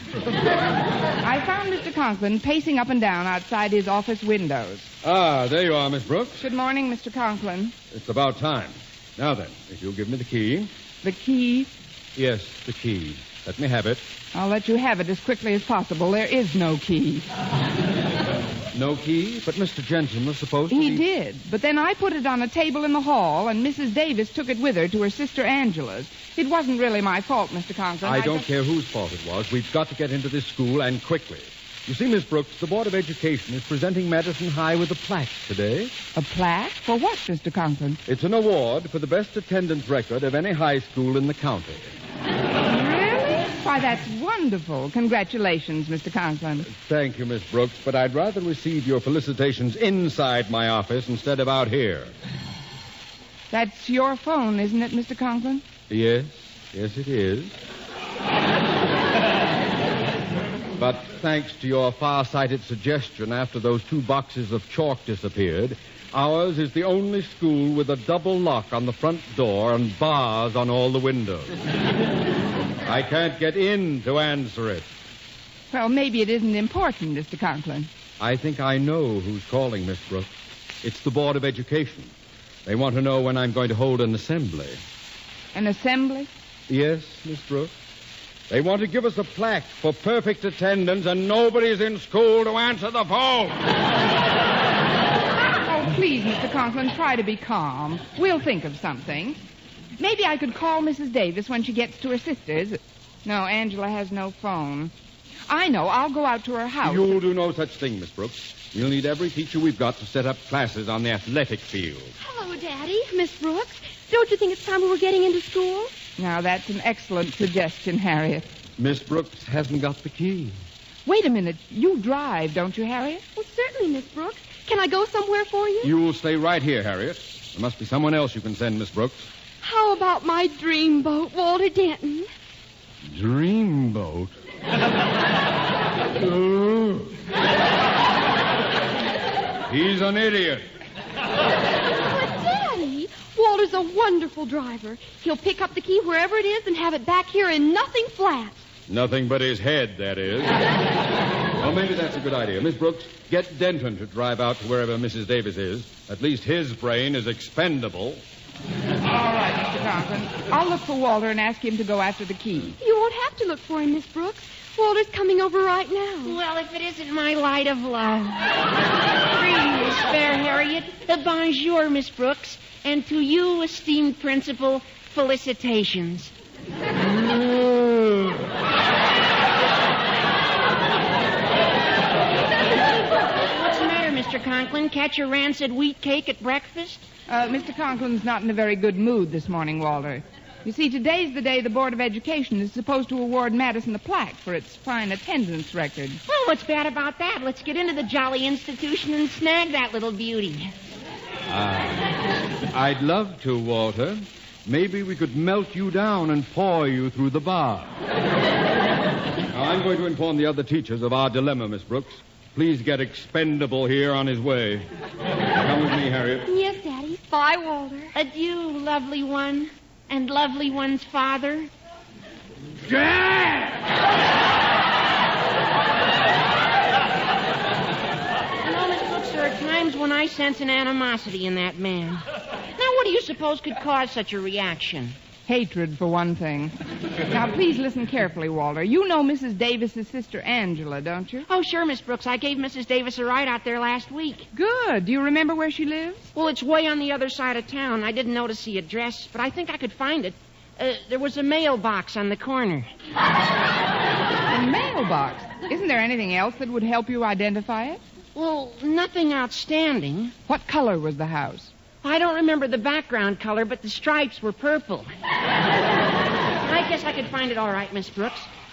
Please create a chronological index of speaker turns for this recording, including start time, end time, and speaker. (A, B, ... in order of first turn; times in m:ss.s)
0:01.2-0:04.9 A
0:05.0-0:06.5 B
0:06.4-0:07.7 A
0:07.9-0:10.7 B
0:11.0-0:11.7 A
0:12.2-0:14.1 B
0:14.3-0:17.2 A
0:18.7-0:21.0 B
0:20.7-0:28.4 A
0:28.0-0:35.9 B
0:36.1-0:38.0 A
0:38.1-0:41.9 B
0:42.6-0:46.7 A
0:46.6-0:52.1 B
0:53.5-0:55.6 A
0:55.9-0:57.6 B
1:00.8-1:11.5 B
1:12.8-1:14.9 B
1:15.7-1:17.9 A
1:18.2-1:20.3 B
1:20.8-1:22.1 B
1:22.6-1:24.8 B
1:25.5-1:26.3 A
1:26.7-1:27.7 B
1:28.5-1:33.7 B
1:35.6-1:39.4 A
1:40.0-1:44.9 A
1:45.5-1:47.1 A
1:46.8-1:52.1 B
1:52.2-1:55.9 C
1:56.2-1:58.5 A
1:58.8-2:00.6 B
2:01.0-2:03.2 A
2:03.3-2:05.9 C
2:05.8-2:09.3 B
2:09.6-2:12.3 C
2:13.0-2:14.4 B
2:16.1-2:17.2 B
2:19.7-2:20.6 B
2:22.1-2:28.6 C
2:28.9-2:30.7 B
2:31.6-2:38.2 B
2:39.1-2:42.7 A
2:42.8-2:46.3 C
2:46.2-2:48.5 D
2:49.2-2:56.3 D
3:03.3-3:07.0 D
3:07.3-3:16.2 A
3:16.3-3:20.7 D
3:21.5-3:22.1 B
3:22.7-3:28.0 B
3:29.5-3:34.9 B
3:35.5-3:36.5 B
3:36.5-3:38.1 C
3:38.1-3:41.7 D
3:42.9-3:43.7 B
3:48.6-3:55.2 D
3:55.5-3:56.7 A
3:57.3-4:01.5 A
4:01.5-4:04.5 D
4:04.5-4:06.3 A
4:06.3-4:12.9 D
4:14.5-4:18.0 A
4:18.3-4:20.3 D
4:20.5-4:21.7 A
4:22.0-4:25.1 D
4:26.6-4:28.5 D